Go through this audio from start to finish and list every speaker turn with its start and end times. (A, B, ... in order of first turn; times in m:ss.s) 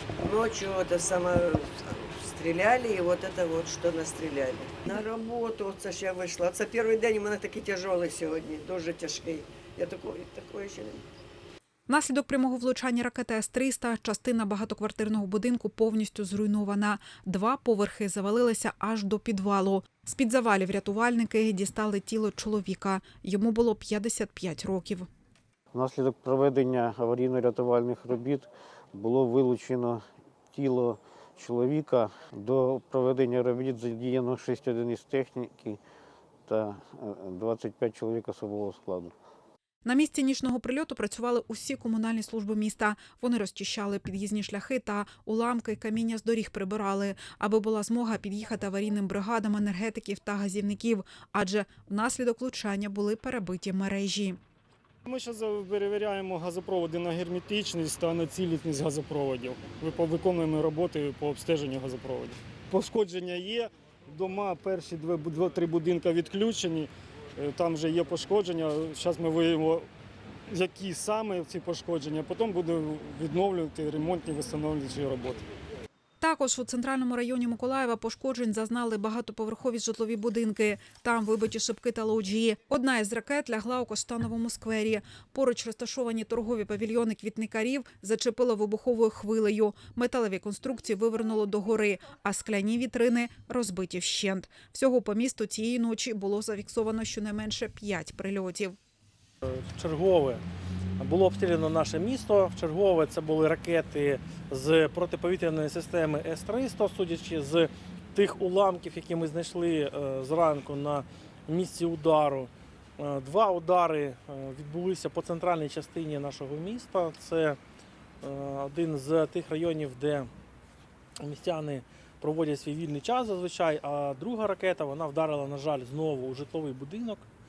0:00.2-0:11.0 A
0:11.9-0:25.1 B
0:25.7-0:35.8 C
0:36.5-0:39.1 C
0:39.8-0:54.4 B
0:55.0-1:09.9 D
1:10.5-1:15.5 D
1:16.2-1:38.8 B
1:39.4-1:40.4 E
1:41.0-1:57.6 E
1:58.2-2:00.3 E
2:01.2-2:07.3 E